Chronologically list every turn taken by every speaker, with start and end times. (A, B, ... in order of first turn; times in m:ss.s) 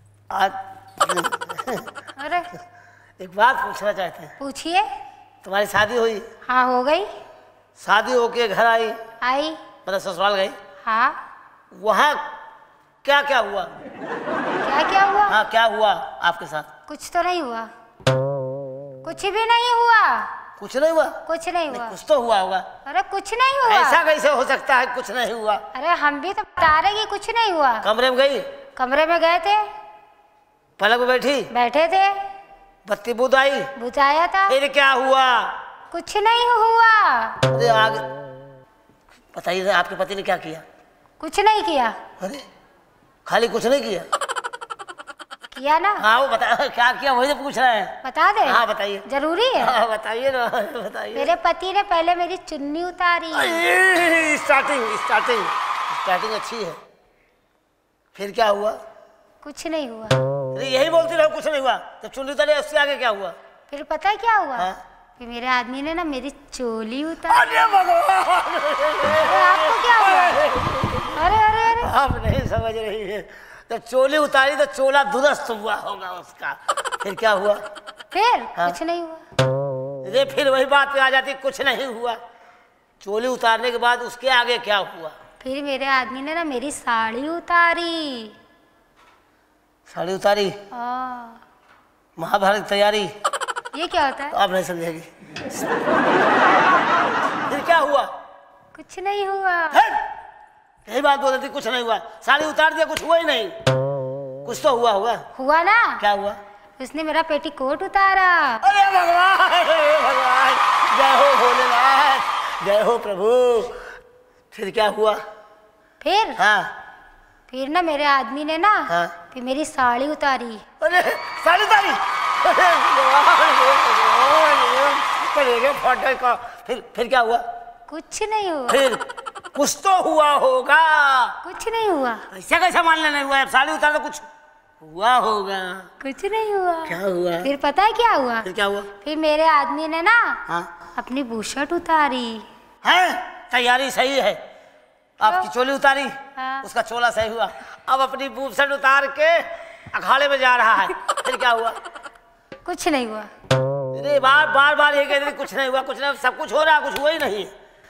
0:00.3-0:01.9 A
0:02.2-0:02.5 B
0:03.2-0:04.3 A
0:04.4-0:04.9 B
0:05.4-0:06.3 A
0:06.5-0:07.1 B
0:07.8-0:09.0 A
0:09.2-0:09.6 B
0:09.9-0:10.6 A
0:10.8-0:11.2 B
0:11.7-0:12.3 A
0:13.0-0:13.7 A
0:14.6-0:15.4 B
0:15.3-0:16.7 A
0:16.9-0:17.7 B
0:19.0-0:20.3 B
0:20.6-0:21.2 A
0:21.3-0:22.0 B
0:21.7-0:22.7 A
0:22.8-0:24.0 B
0:23.7-0:25.6 A
0:25.7-0:27.9 B
0:27.8-0:28.5 A
0:28.8-0:29.7 B
0:30.8-0:31.5 A
0:31.5-0:32.2 B
0:32.9-0:33.7 A
0:33.8-0:34.6 B
0:34.5-0:35.6 A
0:35.9-0:37.4 B
0:37.5-0:38.0 A
0:39.3-0:40.6 A
0:41.2-0:42.0 B
0:42.2-0:42.4 A
0:43.3-0:44.1 A
0:45.5-0:46.1 B
0:46.0-0:49.1 A
0:48.0-0:49.8 B
0:49.6-0:51.3 A
0:51.2-0:53.6 B
0:53.4-0:56.8 A
0:58.1-0:58.8 A
0:59.4-1:00.2 B
1:00.5-1:03.4 A
1:03.7-1:07.5 B
1:07.3-1:17.6 A
1:09.2-1:10.6 B
1:11.1-1:11.9 B
1:18.1-1:19.2 B
1:20.0-1:22.2 A
1:23.0-1:25.2 A
1:25.4-1:28.4 B
1:29.9-1:30.6 A
1:30.7-1:31.4 B
1:32.2-1:33.1 A
1:33.7-1:34.4 B
1:34.3-1:35.7 A
1:37.3-1:38.1 A
1:38.7-1:39.8 B
1:39.7-1:40.0 A
1:40.9-1:43.6 A
1:44.4-1:45.2 A
1:45.4-1:46.0 B
1:46.0-1:46.4 A
1:46.8-1:48.6 B
1:48.6-1:53.8 A
1:54.5-1:55.2 A
1:56.0-1:56.4 B
1:56.4-1:56.7 A
1:57.5-2:00.6 B
1:58.9-1:59.2 A
2:00.8-2:07.4 A
2:07.9-2:08.8 B
2:08.7-2:11.4 A
2:11.4-2:12.3 B
2:12.3-2:14.3 A
2:14.8-2:15.9 A
2:16.0-2:20.4 B
2:16.9-2:17.5 A
2:18.4-2:18.9 A
2:21.0-2:22.5 B
2:22.8-2:24.4 A
2:25.2-2:31.8 A
2:25.2-2:25.5 B
2:26.4-2:26.7 B
2:32.6-2:33.3 B
2:33.9-2:37.5 A